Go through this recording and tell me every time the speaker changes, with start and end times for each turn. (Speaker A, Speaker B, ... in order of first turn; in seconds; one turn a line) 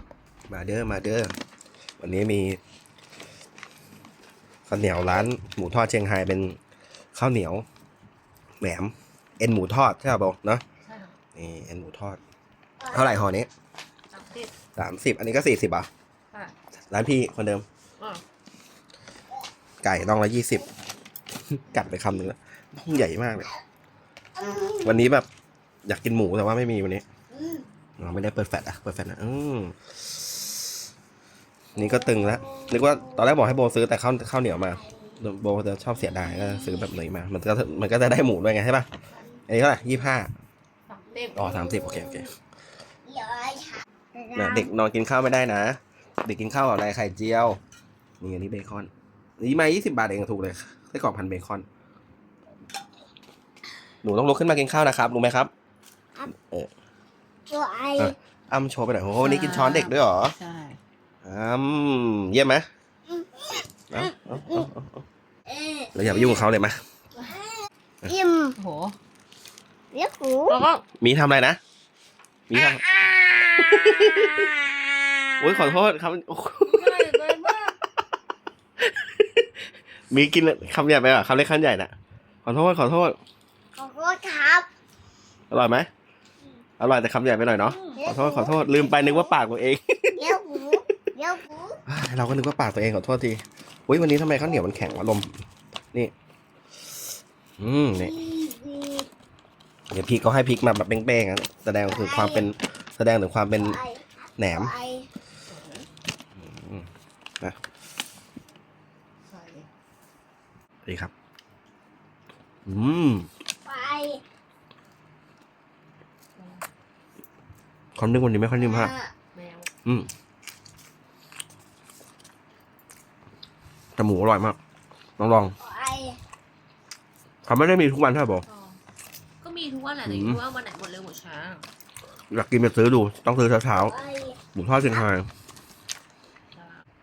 Speaker A: 0.5-1.3
Speaker A: 2.0-2.6
Speaker A: 4.7-6.6
Speaker B: 4.9-5.3
Speaker A: 7.1-7.7
Speaker A: 8.6-10.6
Speaker C: 10.8-11.1
Speaker A: 11.3-12.2
Speaker B: 12.8-13.2
Speaker A: 12.9-13.5
Speaker C: 14.1-14.5
Speaker A: 14.8-15.9
Speaker A: 16.9-17.7
Speaker A: 19.8-20.7
Speaker A: 21.6-23.5
Speaker B: 24.4-25.0
Speaker A: 24.8-25.3
Speaker A: 25.9-27.1
Speaker B: 27.3-27.6
Speaker A: 28.0-30.2
Speaker B: 31.8-33.5
Speaker A: 31.8-38.9
Speaker B: 34.5-35.2
Speaker B: 36.2-36.9
Speaker A: 39.5-40.3
Speaker C: 40.9-41.5
Speaker B: 41.1-42.3
Speaker A: 41.4-42.3
Speaker B: 43.0-44.7
Speaker A: 44.4-47.6
Speaker A: 48.2-51.7
Speaker A: 54.0-55.5
Speaker A: 56.3-56.7
Speaker B: 57.5-58.2
Speaker A: 58.0-60.4
Speaker C: 59.2-60.8
Speaker A: 61.2-62.7
Speaker B: 63.1-64.7
Speaker A: 63.9-65.0
Speaker B: 65.5-66.5
Speaker A: 65.9-66.8
Speaker B: 68.1-68.6
Speaker C: 68.6-69.0
Speaker B: 69.9-70.6
Speaker C: 70.5-70.8
Speaker A: 71.0-71.6
Speaker A: 72.5-72.9
Speaker B: 72.6-75.8
Speaker A: 73.6-74.5
Speaker A: 75.4-77.2
Speaker C: 76.7-77.8
Speaker A: 78.8-79.5
Speaker A: 80.1-83.2
Speaker B: 83.8-84.7
Speaker A: 85.5-85.9
Speaker A: 86.8-90.3
Speaker B: 87.7-89.3
Speaker B: 90.2-91.8
Speaker A: 91.9-95.3
Speaker A: 97.6-98.2
Speaker B: 97.9-99.1
Speaker A: 99.9-103.8
Speaker B: 101.8-102.5
Speaker B: 103.5-105.1
Speaker A: 104.4-104.7
Speaker C: 105.5-105.9
Speaker A: 106.4-106.9
Speaker C: 109.3-109.7
Speaker A: 110.8-111.1
Speaker A: 112.7-113.3
Speaker B: 113.7-114.2
Speaker C: 116.4-116.7
Speaker A: 118.0-118.9
Speaker B: 118.6-119.1
Speaker C: 119.3-119.7
Speaker A: 124.0-124.6
Speaker A: 125.2-125.6
Speaker B: 125.6-126.2
Speaker A: 127.5-128.5
Speaker C: 128.4-128.8
Speaker C: 129.4-131.7
Speaker A: 130.0-130.4
Speaker A: 132.3-133.9
Speaker B: 133.7-134.4
Speaker A: 134.5-135.3
Speaker C: 136.5-136.8